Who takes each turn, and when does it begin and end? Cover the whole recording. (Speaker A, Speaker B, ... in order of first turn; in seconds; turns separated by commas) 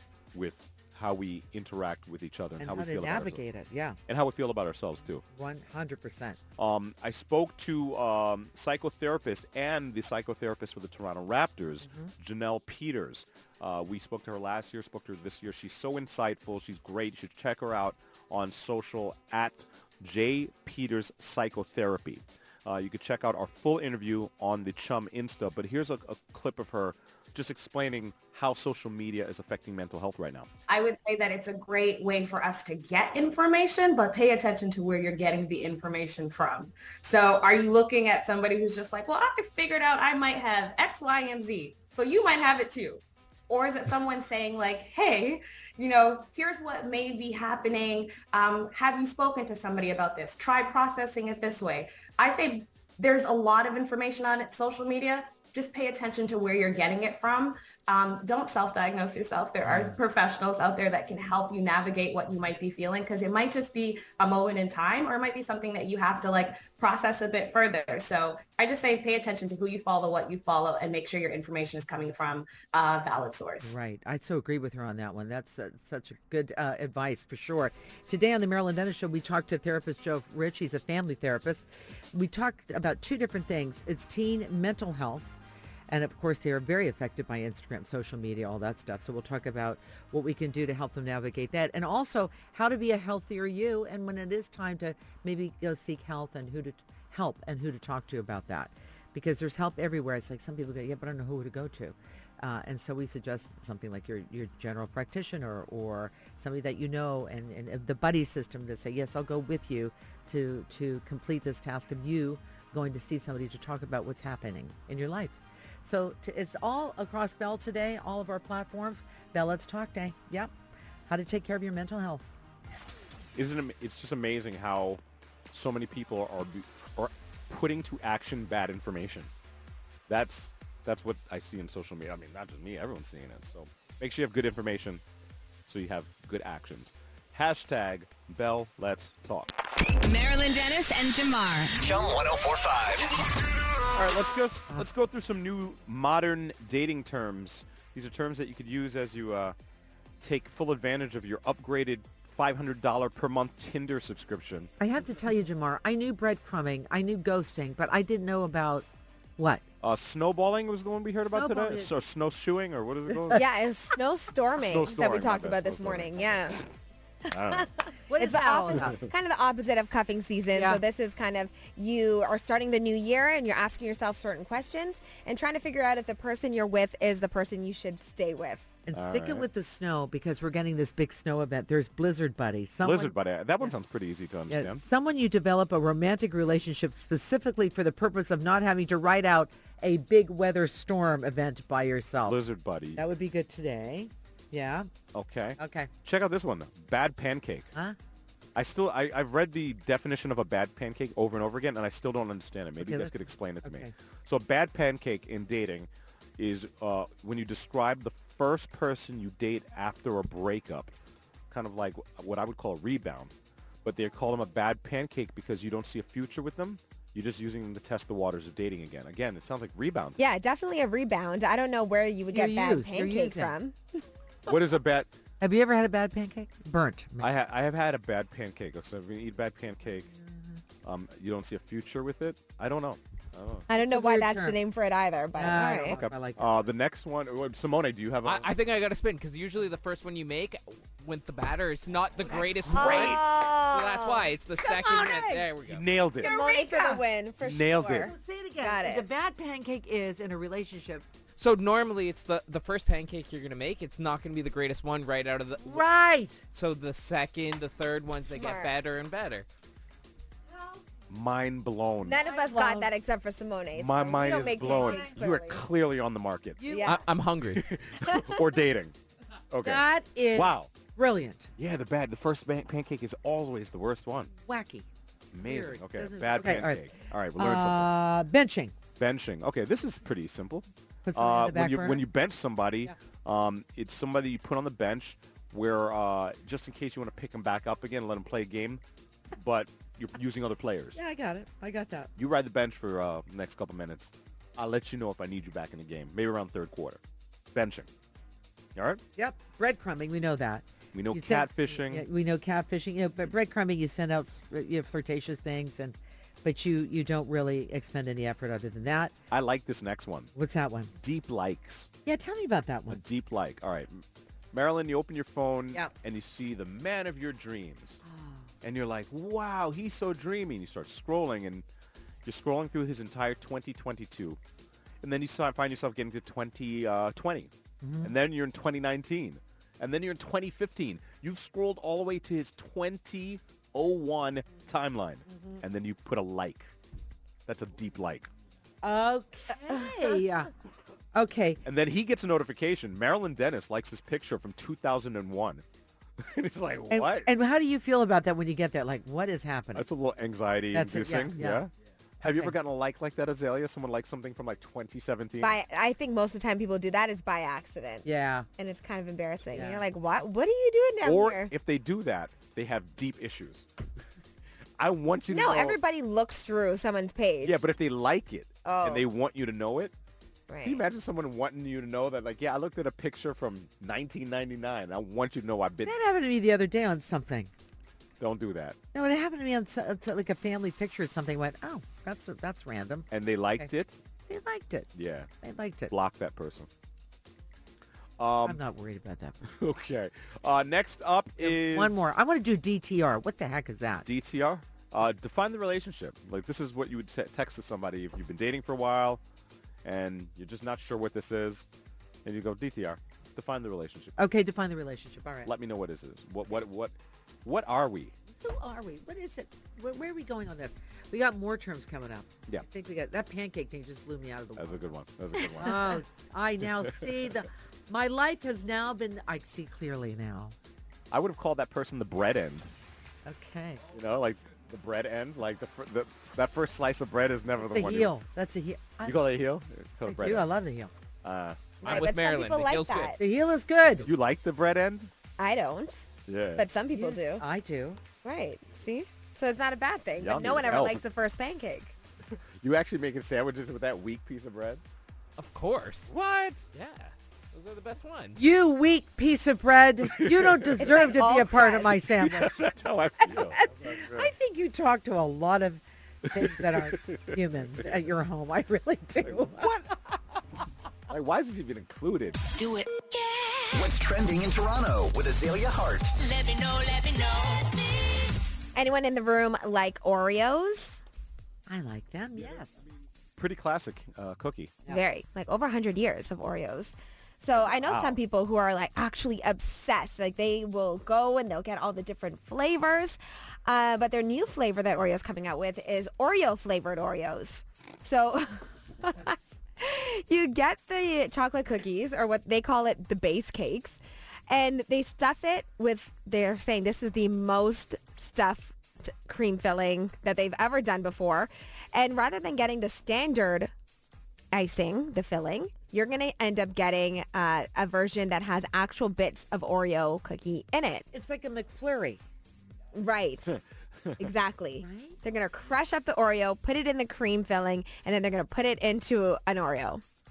Speaker A: 0.3-3.4, Speaker B: 2.6-4.0, Speaker A: 4.1-5.2, Speaker B: 5.3-6.4, Speaker A: 6.6-30.5, Speaker B: 11.8-12.1, Speaker C: 30.7-73.7, Speaker B: 59.6-60.0, Speaker B: 73.6-85.4, Speaker B: 85.9-120.5, Speaker B: 121.1-122.3, Speaker A: 123.3-129.3, Speaker A: 130.1-135.0, Speaker A: 135.7-139.5, Speaker D: 140.0-141.8, Speaker E: 141.8-143.2, Speaker A: 143.9-149.6, Speaker A: 150.2-154.7, Speaker B: 154.8-158.9, Speaker B: 159.4-159.6, Speaker A: 159.8-163.4, Speaker B: 161.2-161.9, Speaker B: 163.1-163.4, Speaker F: 163.3-166.6, Speaker A: 164.6-166.6, Speaker A: 167.3-167.7, Speaker F: 167.5-178.7, Speaker B: 168.1-169.0, Speaker B: 170.5-170.8, Speaker B: 178.9-183.7, Speaker A: 178.9-179.5, Speaker A: 182.8-184.8, Speaker B: 184.5-192.4, Speaker A: 192.2-193.1, Speaker B: 192.9-194.9, Speaker A: 195.1-197.7, Speaker B: 195.6-195.9, Speaker A: 198.5-210.9, Speaker B: 202.8-203.9, Speaker A: 211.5-213.3, Speaker A: 213.8-220.2, Speaker F: 220.2-224.0, Speaker B: 222.3-223.5, Speaker A: 224.5-225.1, Speaker B: 225.4-227.3, Speaker A: 227.2-230.1, Speaker A: 230.8-233.7, Speaker F: 233.7-236.0, Speaker B: 233.7-234.6, Speaker B: 235.4-236.5, Speaker A: 235.9-238.5, Speaker G: 238.2-245.9, Speaker A: 242.7-243.5, Speaker F: 242.7-244.3, Speaker B: 244.5-245.5, Speaker A: 245.6-246.3, Speaker B: 246.2-247.0, Speaker F: 246.2-249.1, Speaker A: 247.4-248.1, Speaker B: 248.0-251.0, Speaker G: 251.4-255.9, Speaker B: 255.6-256.4, Speaker G: 256.5-259.4, Speaker F: 258.2-258.7, Speaker B: 260.5-260.8, Speaker A: 261.1-262.2, Speaker F: 262.0-265.6, Speaker B: 262.2-262.9, Speaker A: 263.7-266.7, Speaker B: 264.6-265.1, Speaker B: 266.6-267.0, Speaker F: 266.7-267.1, Speaker G: 266.8-267.6, Speaker A: 267.4-268.9, Speaker A: 269.5-270.7, Speaker B: 269.6-271.5, Speaker A: 271.6-274.3, Speaker B: 274.4-274.9, Speaker A: 275.3-277.9, Speaker B: 275.4-278.7, Speaker A: 279.0-288.8, Speaker B: 281.1-282.0, Speaker A: 289.3-291.0, Speaker B: 290.9-292.1, Speaker A: 292.1-297.0, Speaker A: 297.5-297.9, Speaker A: 298.8-299.0, Speaker B: 299.1-309.1, Speaker A: 300.9-302.1, Speaker A: 309.3-310.3, Speaker B: 310.3-310.9, Speaker A: 311.0-311.9, Speaker B: 312.0-313.0, Speaker A: 312.9-318.0, Speaker B: 318.0-318.5, Speaker A: 318.6-321.6, Speaker A: 322.2-324.4, Speaker A: 325.0-336.7, Speaker B: 327.8-328.1, Speaker B: 335.3-335.6, Speaker A: 337.5-338.3, Speaker B: 338.8-340.5, Speaker B: 341.1-341.6, Speaker A: 341.6-345.6, Speaker A: 346.2-347.3, Speaker B: 346.9-349.9, Speaker A: 349.7-355.6, Speaker B: 350.7-351.6, Speaker F: 355.4-358.1, Speaker B: 358.0-358.5, Speaker F: 358.6-361.5, Speaker B: 359.5-359.8, Speaker A: 361.0-363.6, Speaker A: 364.8-365.8, Speaker F: 365.3-367.7, Speaker A: 367.4-369.9, Speaker F: 368.6-369.1, Speaker F: 370.5-370.8, Speaker A: 370.6-376.0, Speaker B: 375.8-377.5, Speaker A: 378.2-378.8, Speaker B: 378.9-383.1, Speaker A: 383.1-384.0, Speaker B: 384.3-384.9, Speaker A: 384.9-385.3, Speaker B: 385.4-385.9, Speaker A: 385.9-386.7, Speaker A: 388.2-388.6, Speaker B: 388.4-389.4, Speaker A: 389.4-392.1, Speaker B: 391.4-394.1, Speaker A: 394.0-399.2, Speaker A: 399.8-401.7, Speaker A: 402.2-404.2, Speaker B: 404.2-405.5, Speaker A: 405.4-408.1, Speaker B: 408.4-414.9, Speaker A: 414.6-416.0, Speaker B: 415.6-420.5, Speaker A: 416.8-417.4, Speaker A: 421.1-422.7, Speaker B: 423.2-423.8, Speaker A: 423.9-428.1, Speaker B: 427.6-429.2, Speaker A: 429.0-430.5, Speaker B: 430.0-430.9, Speaker A: 431.2-431.8, Speaker F: 431.8-433.2, Speaker G: 431.8-433.2, Speaker B: 433.2-434.1, Speaker A: 434.0-435.1, Speaker F: 435.4-437.4, Speaker A: 436.2-436.7, Speaker B: 436.9-438.0, Speaker F: 438.2-441.9, Speaker A: 440.2-441.0, Speaker A: 442.6-444.8, Speaker G: 445.4-446.1, Speaker A: 446.1-446.6, Speaker G: 446.7-448.4, Speaker B: 448.4-452.6, Speaker A: 450.0-451.0, Speaker F: 450.8-452.0, Speaker A: 452.0-454.3, Speaker B: 453.2-459.7, Speaker A: 456.3-457.8, Speaker A: 459.2-460.4, Speaker A: 461.1-462.4, Speaker D: 462.6-463.7, Speaker E: 463.7-466.1, Speaker D: 466.2-467.7, Speaker F: 468.7-471.0, Speaker B: 471.7-472.8, Speaker A: 472.4-472.6, Speaker A: 473.4-474.8, Speaker F: 474.9-503.7, Speaker A: 477.5-478.2, Speaker F: 504.5-511.1, Speaker B: 511.1-512.2, Speaker F: 512.9-513.6, Speaker A: 513.5-514.3, Speaker F: 514.2-520.0, Speaker B: 514.8-515.2